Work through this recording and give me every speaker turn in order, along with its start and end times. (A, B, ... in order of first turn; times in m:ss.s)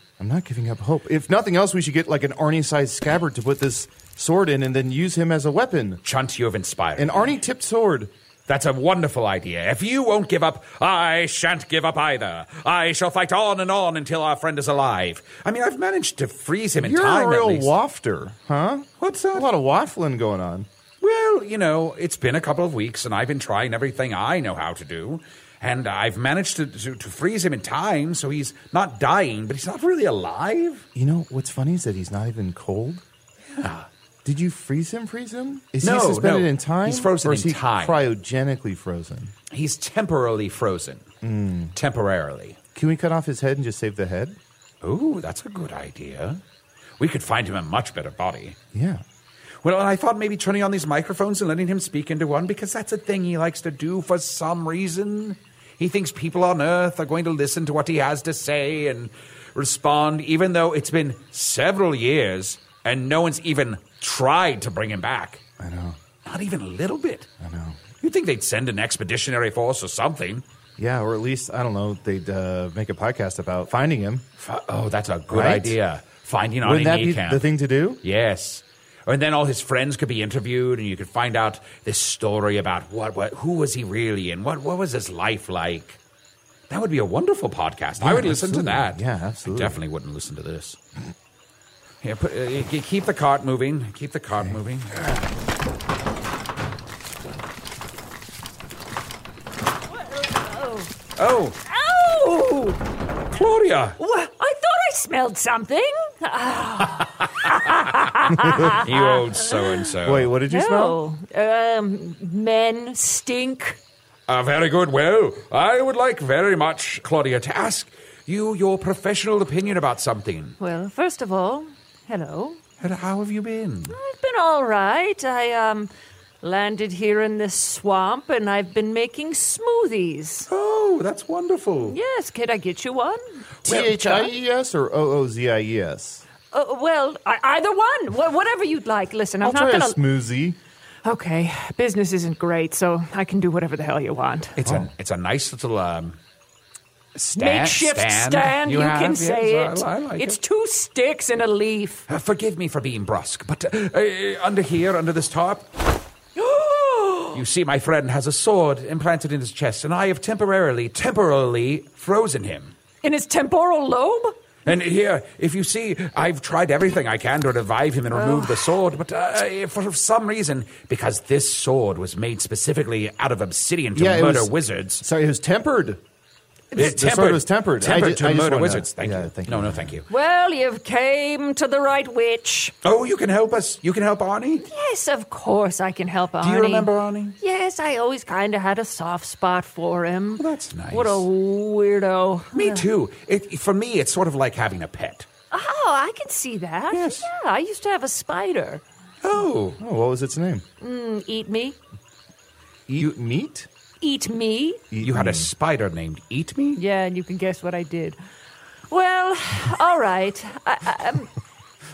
0:00.2-0:06.0 A
0:06.0-0:07.4 B
0:07.0-0:08.1 A
0:08.5-0:17.7 B
0:16.8-0:20.7 A
0:19.0-0:19.5 B
0:21.0-0:30.8 B
0:30.9-0:33.0 A
0:33.5-0:33.9 B
0:34.2-0:39.3 A
0:35.8-0:38.0 B
0:39.5-0:41.1 B
0:41.2-0:41.7 A
0:41.7-0:42.6 B
0:42.7-0:44.4 A
0:44.8-0:46.4 B
0:47.0-0:48.6 B
0:48.7-0:49.0 A
0:49.6-1:05.4 B
1:05.6-1:06.0 A
1:06.2-1:07.3 B
1:07.4-1:07.8 A
1:08.0-1:10.4 B
1:10.8-1:14.2 A
1:14.4-1:26.0 B
1:15.3-1:15.8 A
1:16.6-1:18.0 A
1:26.7-1:30.8 B
1:28.0-1:29.8 A
1:32.0-1:35.2 B
1:40.0-1:40.9 C
1:41.2-1:41.6 B
1:41.6-1:42.8 C
1:43.3-1:44.0 B
1:44.0-1:49.9 C
1:47.4-1:47.8 B
1:48.4-1:50.3 B
1:50.0-1:51.0 A
1:50.5-1:53.8 C
1:54.3-2:00.6 B
2:00.6-2:02.6 C
2:02.8-2:03.9 B
2:03.9-2:05.9 C
2:06.4-2:10.5 C
2:10.5-2:12.0 B
2:11.9-2:14.3 C
2:13.6-2:16.2 A
2:16.5-2:20.0 C
2:19.4-2:20.6 A
2:21.0-2:24.6 C
2:24.6-2:26.2 B
2:24.6-2:24.9 A
2:27.1-2:30.4 B
2:27.4-2:32.0 C
2:32.1-2:35.7 B
2:36.4-2:37.4 C
2:37.3-2:42.7 B
2:43.0-2:44.4 C
2:44.6-2:55.0 B
2:48.1-2:48.7 C
2:53.9-2:56.0 A
2:56.7-3:00.0 A
2:56.8-3:00.1 B
3:00.1-3:02.7 C
3:02.8-3:04.7 B
3:04.7-3:12.8 C
3:06.4-3:07.4 B
3:10.4-3:11.2 B
3:12.5-3:15.3 B
3:15.5-3:18.8 C
3:16.9-3:17.3 B
3:19.2-3:19.8 B
3:19.8-3:20.6 A
3:20.8-3:21.8 C
3:22.9-3:23.7 A
3:24.0-3:24.8 C
3:24.9-3:25.5 A
3:25.0-3:26.8 B
3:26.8-3:28.2 C
3:28.9-3:31.3 C